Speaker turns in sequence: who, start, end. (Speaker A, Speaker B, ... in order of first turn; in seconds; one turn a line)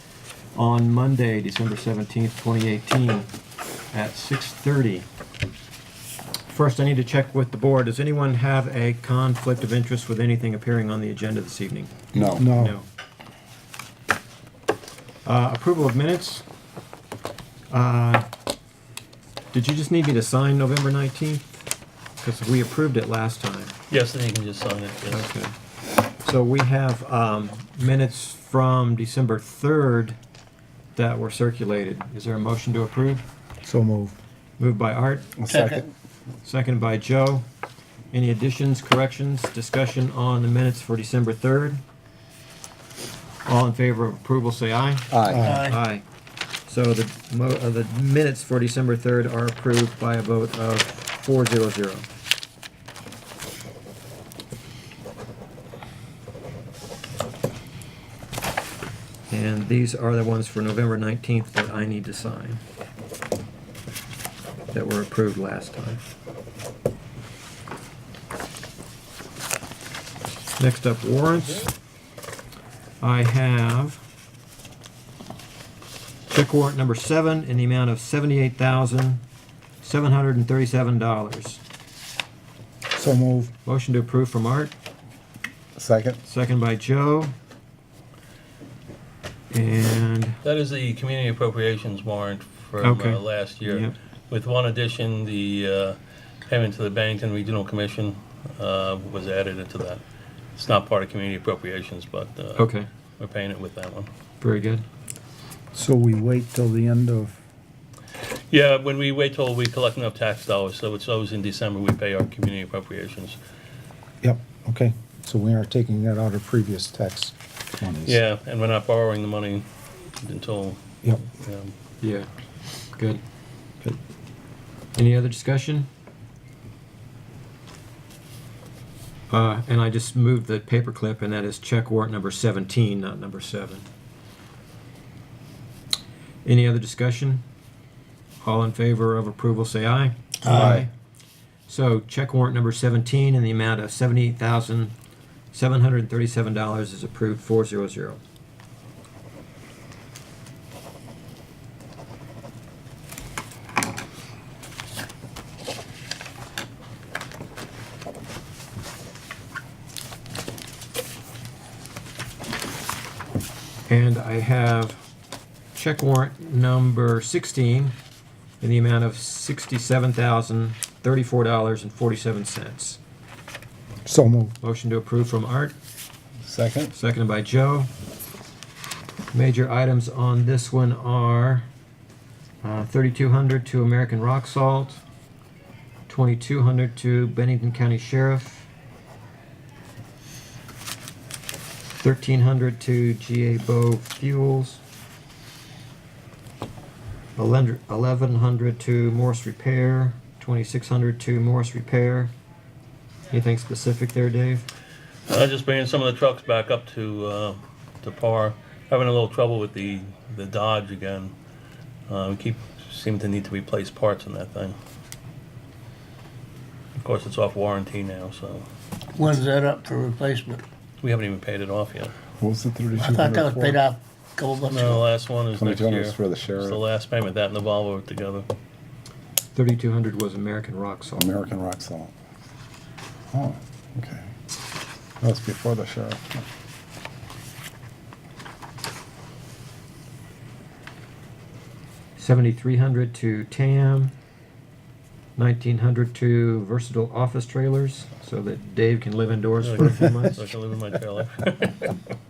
Speaker A: 0.6-3.3
Speaker A: 3.9-5.1
Speaker A: 6.5-12.9
Speaker B: 12.1-12.4
Speaker C: 12.3-12.8
Speaker A: 15.2-16.4
Speaker A: 17.7-18.3
Speaker A: 19.5-21.5
Speaker A: 22.2-23.7
Speaker D: 23.9-25.3
Speaker A: 25.1-25.5
Speaker A: 26.1-30.2
Speaker A: 31.0-33.2
Speaker C: 33.6-34.2
Speaker A: 34.6-35.4
Speaker B: 35.4-35.9
Speaker E: 35.5-35.8
Speaker A: 36.4-37.5
Speaker A: 38.1-41.8
Speaker A: 43.5-46.0
Speaker B: 45.1-45.6
Speaker E: 45.4-45.8
Speaker A: 46.7-52.1
Speaker A: 59.3-62.6
Speaker A: 64.7-66.0
Speaker A: 70.6-71.7
Speaker A: 73.0-74.0
Speaker A: 76.3-79.2
Speaker A: 79.8-81.6
Speaker C: 82.9-83.5
Speaker A: 83.7-84.7
Speaker B: 85.8-86.2
Speaker A: 86.2-87.3
Speaker A: 89.5-90.4
Speaker D: 90.4-100.0
Speaker A: 92.8-93.9
Speaker D: 100.5-102.7
Speaker A: 102.6-102.9
Speaker D: 103.2-104.1
Speaker A: 104.4-104.8
Speaker C: 105.7-107.4
Speaker D: 108.5-113.4
Speaker C: 114.2-118.2
Speaker D: 118.0-119.7
Speaker D: 120.2-121.7
Speaker A: 122.0-122.3
Speaker A: 122.9-123.2
Speaker A: 125.0-125.9
Speaker A: 129.3-133.9
Speaker A: 136.4-137.4
Speaker A: 138.4-140.9
Speaker B: 140.5-140.9
Speaker A: 141.7-144.9
Speaker A: 145.5-148.2
Speaker A: 163.9-165.0
Speaker A: 165.7-167.9
Speaker A: 168.6-173.0
Speaker C: 174.1-174.6
Speaker A: 174.6-175.8
Speaker B: 176.4-176.9
Speaker A: 176.9-177.9
Speaker A: 179.3-181.7
Speaker A: 182.6-185.0
Speaker A: 186.1-188.7
Speaker A: 192.0-194.8
Speaker A: 197.4-202.3
Speaker A: 203.3-204.7
Speaker D: 205.3-211.3
Speaker D: 212.1-214.8
Speaker D: 217.0-218.7
Speaker E: 219.2-220.6
Speaker D: 221.0-222.1
Speaker B: 222.4-223.8
Speaker E: 223.0-224.9
Speaker D: 224.7-228.5
Speaker B: 225.6-226.8
Speaker A: 229.6-231.3
Speaker B: 231.2-232.1
Speaker B: 233.3-234.3
Speaker B: 235.2-236.5
Speaker A: 242.2-244.1
Speaker A: 245.4-250.4
Speaker D: 249.6-252.0